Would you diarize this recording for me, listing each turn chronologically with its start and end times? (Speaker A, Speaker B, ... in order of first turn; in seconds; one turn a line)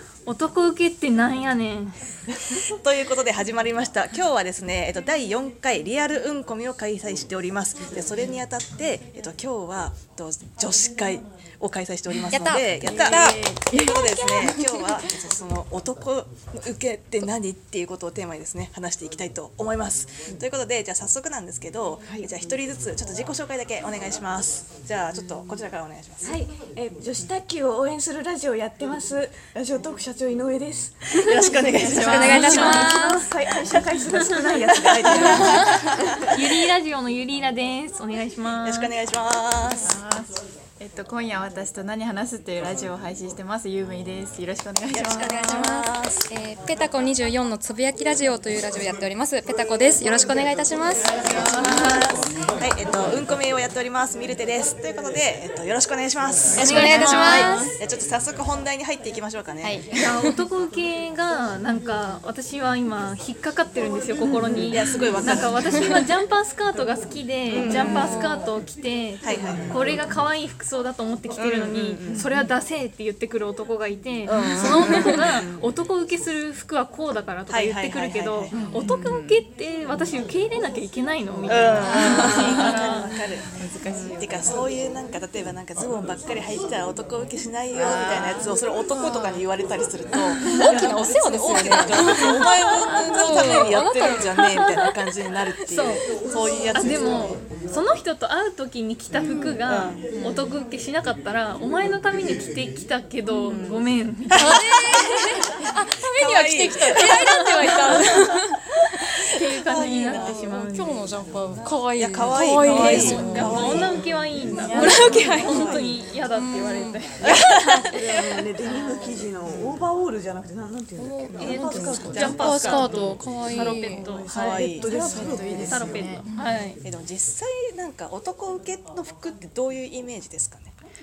Speaker A: 0.3-2.0
Speaker B: 2.4-26.4
Speaker C: 12.3-15.1
Speaker D: 12.8-14.0
Speaker E: 26.2-36.1
Speaker B: 31.2-33.0
Speaker D: 31.6-32.9
Speaker C: 32.0-33.2
Speaker B: 34.8-35.9
Speaker C: 35.3-35.7
Speaker A: 36.1-38.9
Speaker B: 38.6-40.0
Speaker D: 39.8-45.4
Speaker B: 44.9-46.3
Speaker C: 45.2-51.2
Speaker B: 51.2-59.8
Speaker D: 51.2-52.1
Speaker A: 51.6-52.0
Speaker C: 56.5-57.6
Speaker A: 56.5-57.7
Speaker C: 59.6-60.4
Speaker A: 59.9-83.1
Speaker E: 64.2-64.8
Speaker B: 64.7-65.7
Speaker B: 67.5-68.3
Speaker C: 67.9-68.5
Speaker B: 69.2-69.9
Speaker B: 71.3-72.2
Speaker E: 72.1-72.4
Speaker B: 74.3-75.6
Speaker C: 74.6-75.2
Speaker B: 77.5-78.7
Speaker D: 78.5-79.2
Speaker B: 81.5-83.5
Speaker C: 81.8-82.7
Speaker D: 82.0-83.0
Speaker D: 83.6-84.5
Speaker B: 84.1-97.4
Speaker C: 90.5-94.8
Speaker A: 92.2-93.8
Speaker A: 95.7-96.0
Speaker A: 96.7-104.6
Speaker B: 99.7-100.1
Speaker C: 100.2-100.4
Speaker B: 103.4-105.1
Speaker C: 104.4-108.7
Speaker B: 106.0-108.1
Speaker B: 109.3-110.5
Speaker A: 109.3-111.0
Speaker C: 110.1-113.7
Speaker B: 111.0-114.0
Speaker A: 112.6-117.3
Speaker D: 114.7-115.2
Speaker C: 114.7-117.9
Speaker B: 115.4-116.0
Speaker B: 117.2-117.9
Speaker E: 117.9-123.1
Speaker C: 118.6-119.2
Speaker C: 121.0-124.0
Speaker A: 121.3-124.5
Speaker B: 122.1-122.9
Speaker E: 123.7-126.2
Speaker B: 124.3-125.0
Speaker D: 124.6-126.2
Speaker A: 125.5-126.8
Speaker B: 126.8-130.7